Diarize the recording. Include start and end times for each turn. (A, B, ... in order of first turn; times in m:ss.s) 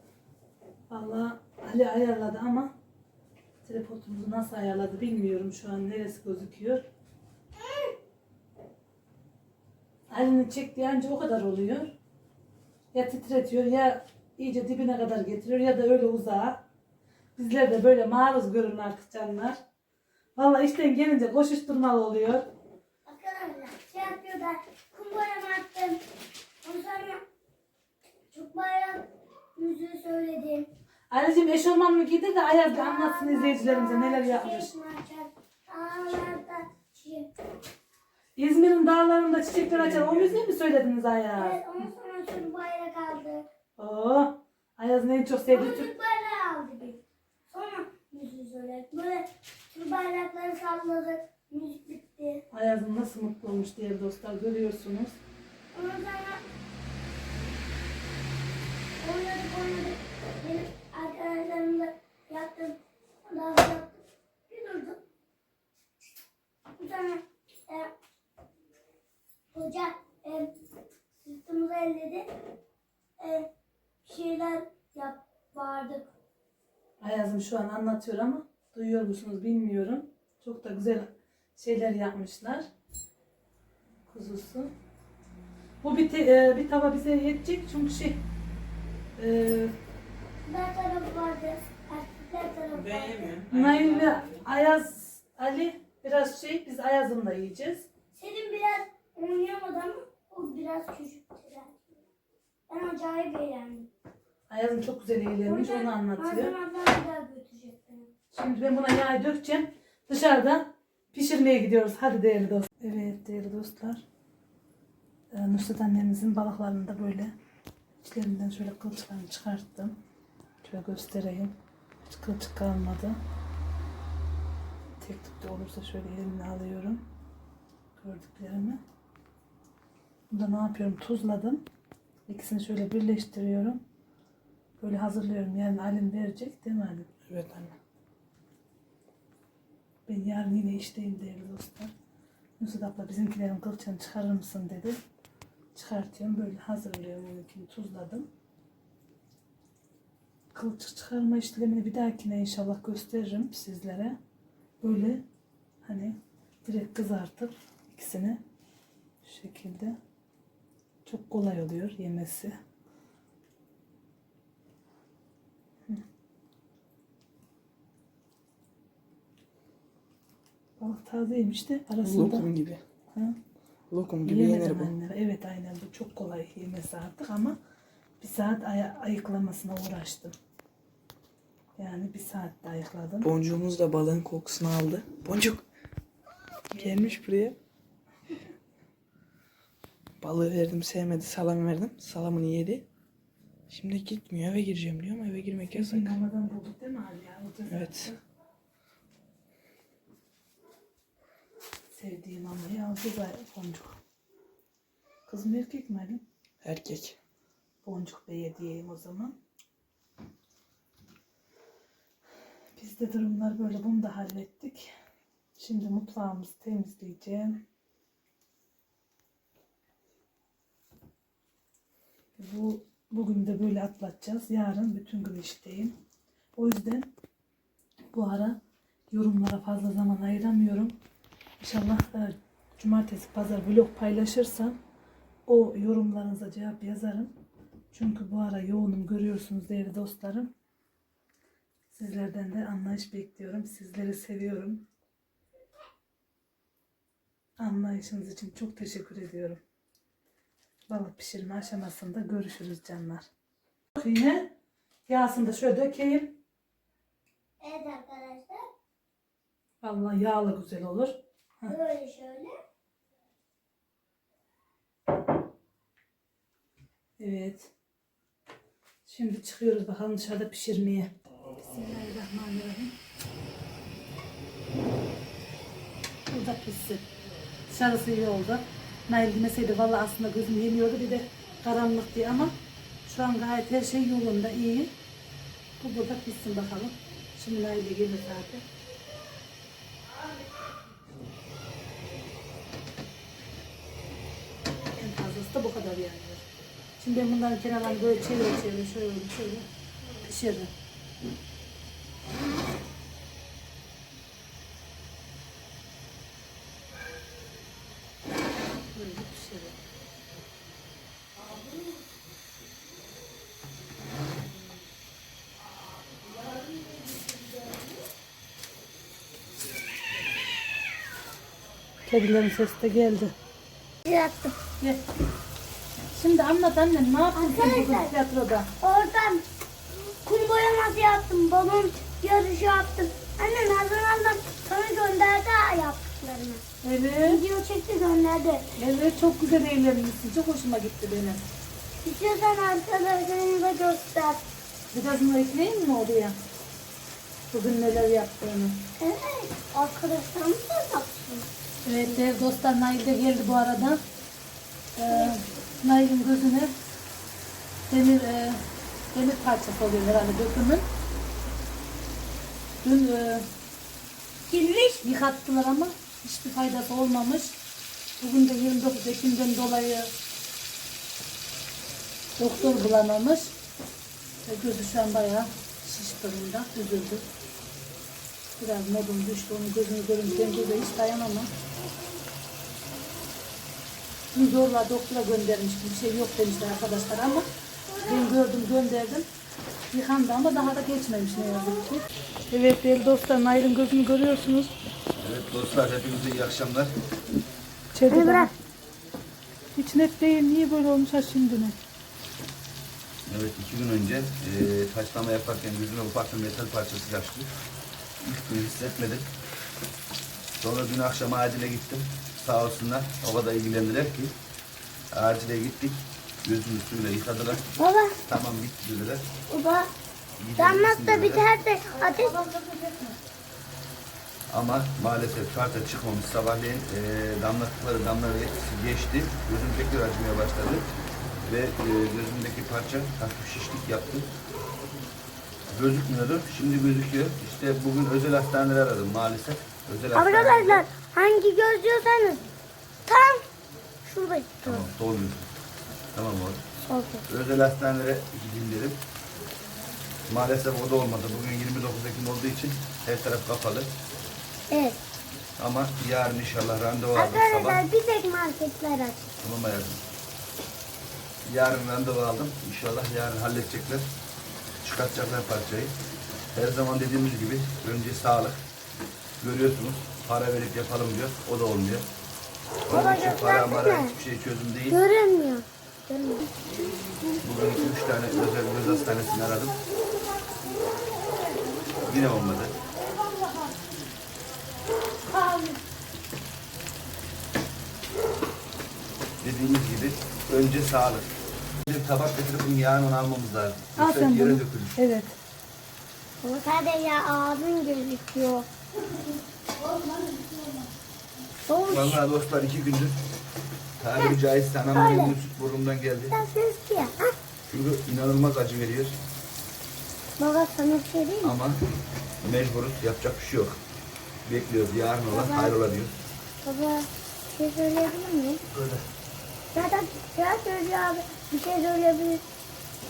0:00.9-0:02.7 A
0:03.6-0:06.9 A
0:07.6-0:07.9 B
0:10.1-0:11.9 A
0:12.9-0:16.6 A
0:17.4-0:19.6 A
0:20.4-0:22.5 A
0:23.1-0:26.0 B
0:26.6-0:27.2 B
0:28.3-0:30.7 B
0:31.1-0:34.7 A
0:32.7-0:37.3 B
0:38.4-0:41.6 A
0:41.4-0:43.5 B
0:43.8-0:45.9 A
0:45.5-0:52.4 B
0:52.5-0:55.2 A
0:55.7-0:56.4 B
0:59.0-1:04.0 B
1:04.5-1:05.0 B
1:06.8-1:07.9 B
1:09.5-1:10.5 B
1:11.2-1:12.3 B
1:13.2-1:13.5 B
1:14.1-1:16.1 B
1:17.0-1:22.7 A
1:24.1-1:24.7 A
1:25.8-1:28.2 A
1:29.2-1:29.7 A
1:30.5-1:33.4 B
1:32.7-1:34.4 C
1:33.5-1:37.9 A
1:38.1-1:41.8 B
1:42.7-1:43.9 B
1:44.5-1:46.5 A
1:45.5-1:48.1 B
1:48.3-1:54.0 A
1:55.3-1:57.3 A
1:58.0-2:00.0 A
2:00.6-2:03.2 A
2:05.0-2:07.0 A
2:08.0-2:08.8 A
2:10.3-2:11.6 A
2:12.3-2:13.8 A
2:14.8-2:17.6 A
2:17.3-2:17.7 C
2:20.1-2:21.9 A
2:22.6-2:25.0 A
2:25.8-2:28.3 A
2:30.5-2:34.2 A
2:34.8-2:35.2 A
2:35.8-2:38.4 A
2:39.2-2:40.0 A
2:41.1-2:42.6 A
2:50.8-2:52.5 A
2:52.0-2:52.8 C
2:53.9-2:54.9 C
2:54.2-2:57.6 A
2:58.2-3:00.4 A
3:01.8-3:03.3 A
3:03.2-3:05.6 C
3:06.7-3:07.6 C
3:10.2-3:12.8 C
3:13.7-3:16.2 C
3:15.7-3:18.2 A
3:17.7-3:18.1 C
3:21.9-3:24.0 A
3:25.3-3:26.2 A
3:26.6-3:27.2 C
3:27.8-3:29.4 A
3:32.8-3:34.9 A
3:35.6-3:37.6 A
3:42.4-3:46.0 A
3:46.6-3:47.1 A
3:48.1-3:48.6 A
3:49.1-3:51.0 A
3:51.6-3:54.8 A
3:55.5-3:57.3 A
3:57.9-4:00.5 A
4:01.9-4:04.8 A
4:07.6-4:09.6 A
4:10.9-4:13.3 A
4:14.0-4:14.5 A
4:15.1-4:16.4 A
4:17.6-4:18.6 B
4:19.8-4:21.8 A
4:21.7-4:22.6 B
4:27.2-4:27.7 A
4:29.1-4:32.9 A
4:36.3-4:37.1 A
4:37.7-4:42.6 A
4:43.1-4:44.9 A
4:45.8-4:48.6 A
4:55.0-4:56.4 A
4:57.0-4:59.7 A
5:00.2-5:00.7 A
5:08.9-5:09.8 A
5:22.1-5:23.3 A
5:24.0-5:24.6 B
5:26.1-5:28.7 A
5:27.4-5:28.1 B
5:28.8-5:29.4 B
5:30.2-5:36.6 B
5:36.8-5:37.4 A
5:37.2-5:38.7 B
5:38.8-5:41.5 A
5:42.0-5:44.4 B
5:44.9-5:46.4 A
5:47.5-5:48.9 A
5:49.0-5:51.5 B
5:51.8-5:54.0 A
5:55.0-5:56.7 A
5:57.9-6:00.9 A
6:02.8-6:03.5 A
6:04.5-6:05.0 B
6:05.0-6:07.6 A
6:08.2-6:10.1 A
6:12.4-6:13.5 A
6:14.5-6:17.2 A
6:18.6-6:21.5 A
6:20.4-6:20.9 B
6:24.3-6:27.5 A
6:27.9-6:28.3 B
6:28.0-6:29.3 A
6:29.9-6:34.7 A
6:35.2-6:37.0 D
6:38.0-6:38.5 A
6:38.1-6:38.5 B
6:39.8-6:41.8 A
6:43.3-6:47.5 D
6:48.2-6:49.3 D
6:50.6-6:54.3 D
6:55.1-6:57.6 D
6:57.8-6:58.2 B
6:58.3-6:59.3 D
6:59.5-6:59.9 B
7:00.4-7:01.5 D
7:00.6-7:02.4 B
7:01.9-7:03.2 A
7:04.5-7:10.9 D
7:11.4-7:14.3 D
7:15.7-7:20.8 D
7:20.2-7:22.4 B
7:23.1-7:23.4 B
7:24.0-7:24.9 B
7:24.6-7:25.5 D
7:26.1-7:26.6 D
7:26.9-7:27.2 B
7:27.3-7:29.0 D
7:30.3-7:33.9 D
7:34.7-7:35.0 B
7:35.6-7:37.8 D
7:37.2-7:39.2 B
7:39.4-7:40.0 D
7:41.5-7:44.1 D
7:44.8-7:46.0 D
7:46.5-7:48.6 D
7:49.4-7:52.1 D
7:52.9-7:54.2 B
7:52.9-7:55.0 D
7:54.9-7:56.5 B
7:57.4-7:59.8 D
8:02.0-8:02.8 D
8:03.4-8:03.7 A
8:05.3-8:05.8 A
8:09.4-8:11.3 D
8:11.8-8:15.0 D
8:14.0-8:15.4 A
8:16.4-8:18.7 B
8:19.8-8:20.9 B
8:21.7-8:22.2 B
8:21.9-8:23.2 D
8:24.0-8:26.4 D
8:24.9-8:25.4 B
8:26.3-8:27.4 B
8:27.7-8:29.2 D
8:30.4-8:31.6 B
8:31.4-8:31.8 D
8:32.4-8:33.8 D
8:34.4-8:36.1 D
8:35.3-8:35.8 B
8:36.6-8:38.6 B
8:38.7-8:39.0 D
8:39.7-8:42.4 B